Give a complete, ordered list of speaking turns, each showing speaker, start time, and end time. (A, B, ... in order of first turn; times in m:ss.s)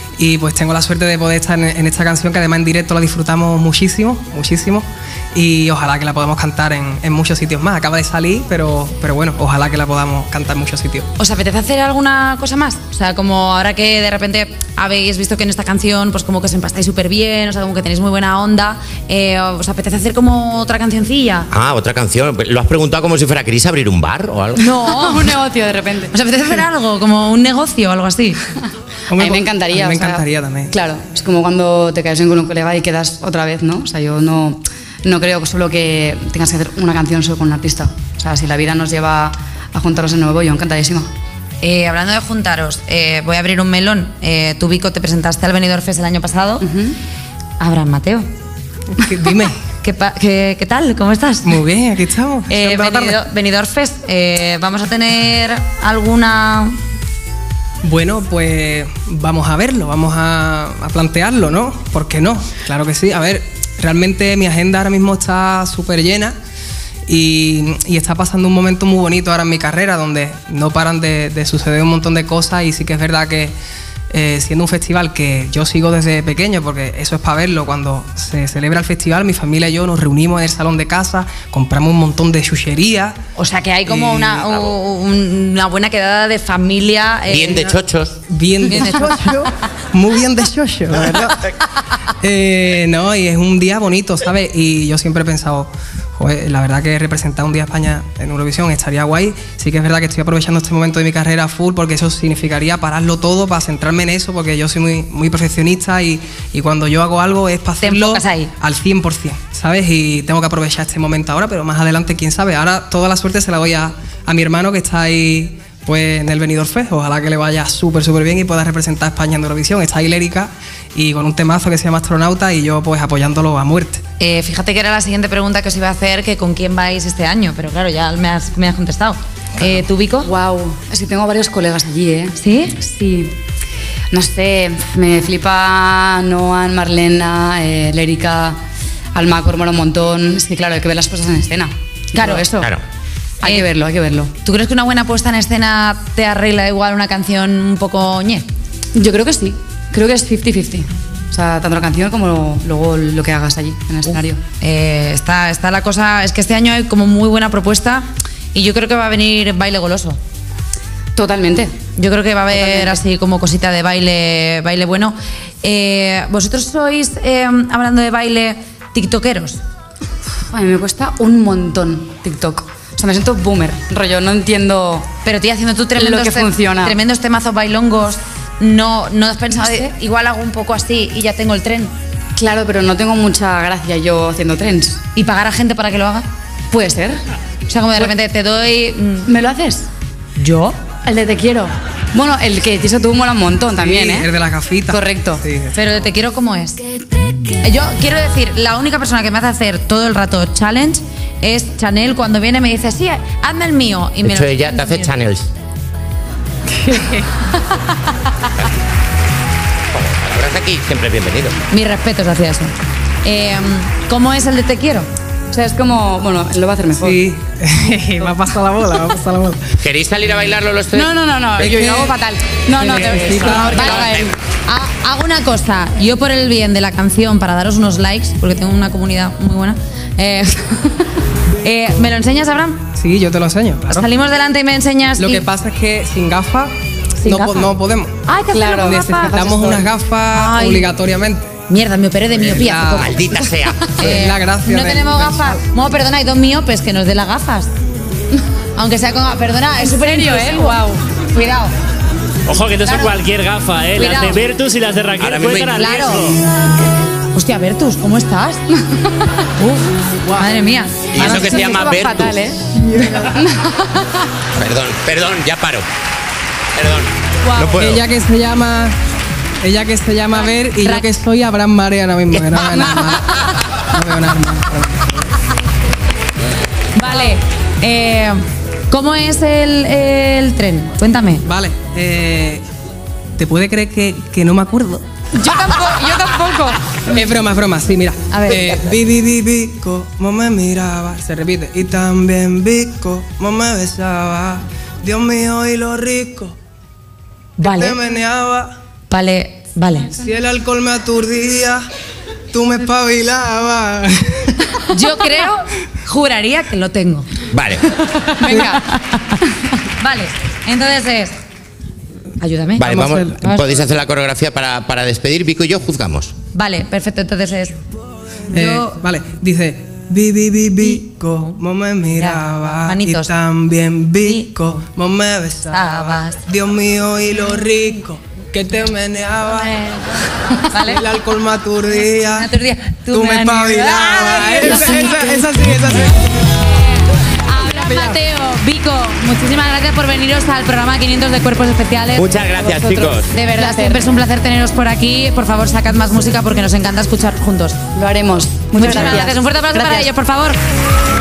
0:00.2-0:11.0 A
0:11.2-0:21.5 B
0:21.5-0:24.6 C
0:24.6-0:25.2 B
0:24.8-0:26.1 D
0:26.1-0:28.4 B
0:29.1-0:30.7 A
0:29.1-0:41.1 D
0:41.6-0:46.7 B
0:46.6-0:47.0 D
0:47.6-0:48.3 B
0:49.0-0:49.6 A
0:49.8-0:51.6 B
0:51.4-0:53.2 A
0:52.5-0:56.8 B
0:57.8-1:06.4 A
1:07.1-1:13.5 A
1:14.1-1:23.2 A
1:23.3-1:27.8 B
1:23.9-1:24.3 A
1:24.3-1:24.7 C
1:27.3-1:28.2 C
1:28.3-1:31.5 A
1:28.7-1:29.3 B
1:32.2-2:04.0 A
1:47.8-1:48.5 B
2:04.2-2:10.3 B
2:10.2-2:13.3 D
2:12.4-2:12.8 B
2:14.1-2:18.6 D
2:19.1-2:22.7 D
2:22.2-2:22.4 B
2:23.4-2:24.3 D
2:24.4-2:28.4 B
2:28.9-2:34.4 D
2:34.6-2:40.2 B
2:41.1-2:41.8 D
2:42.0-2:49.6 B
2:42.5-2:43.0 D
2:50.5-2:55.1 D
2:55.2-3:01.9 B
2:56.0-2:57.0 D
3:02.4-3:05.0 D
3:05.2-3:06.3 B
3:06.7-3:07.2 D
3:07.7-3:09.3 B
3:09.2-3:09.9 D
3:10.4-3:10.8 B
3:11.0-3:14.3 D
3:13.7-3:15.8 A
3:14.9-3:15.4 D
3:15.7-3:16.8 B
3:17.6-3:25.1 B
3:24.2-3:25.5 C
3:29.9-3:31.6 C
3:31.7-3:35.1 B
3:35.5-3:37.2 D
3:37.0-3:39.8 A
3:39.8-3:41.8 C
3:40.9-3:44.4 D
3:41.6-3:42.1 A
3:42.8-3:43.6 E
3:43.0-3:43.9 A
3:43.5-3:44.3 C
3:43.6-3:44.1 B
3:44.6-3:51.0 B
3:51.6-3:52.8 B
3:52.9-3:54.1 A
3:53.9-3:55.4 B
3:55.2-4:01.5 A
3:57.2-3:57.7 B
3:58.3-3:59.3 B
3:58.4-3:59.9 D
4:00.3-4:00.9 B
4:01.7-4:03.3 B
4:02.3-4:03.2 A
4:03.0-4:03.8 C
4:03.8-4:07.7 B
4:04.0-4:05.6 A
4:08.8-4:11.7 B
4:09.8-4:11.0 D
4:12.5-4:16.4 E
4:14.0-4:14.4 B
4:15.2-4:16.2 C
4:15.7-4:16.4 B
4:17.3-4:18.6 B
4:19.6-4:21.6 B
4:21.1-4:22.3 C
4:21.1-4:24.3 D
4:22.8-4:23.3 A
4:24.6-4:25.8 C
4:26.7-4:28.0 C
4:27.8-4:29.0 A
4:29.6-4:35.3 A
4:36.9-4:41.4 B
4:41.4-4:42.6 A
4:43.4-4:45.0 A
4:45.3-4:47.0 D
4:47.1-4:56.5 A
4:48.3-4:48.7 B
4:57.6-4:58.0 B
4:57.6-4:58.7 A
4:59.1-5:00.2 B
5:00.1-5:01.8 A
5:02.5-5:04.8 A
5:04.9-5:07.3 B
5:07.5-5:07.9 C
5:08.0-5:08.7 B
5:08.4-5:09.4 D
5:10.0-5:11.3 B
5:12.4-5:13.7 B
5:12.8-5:16.3 C
5:16.5-5:17.8 B
5:18.5-5:19.0 B
5:18.5-5:30.0 A
5:22.2-5:23.3 B
5:24.2-5:24.5 B
5:25.7-5:26.4 B
5:30.7-5:31.0 B
5:30.7-5:32.5 A
5:32.3-5:35.5 B
5:33.1-5:36.6 A
5:36.7-5:42.3 B
5:37.7-5:38.2 A
5:42.1-5:43.3 C
5:42.4-5:44.0 D
5:43.3-5:47.8 B
5:47.9-5:50.1 D
5:48.7-5:50.6 B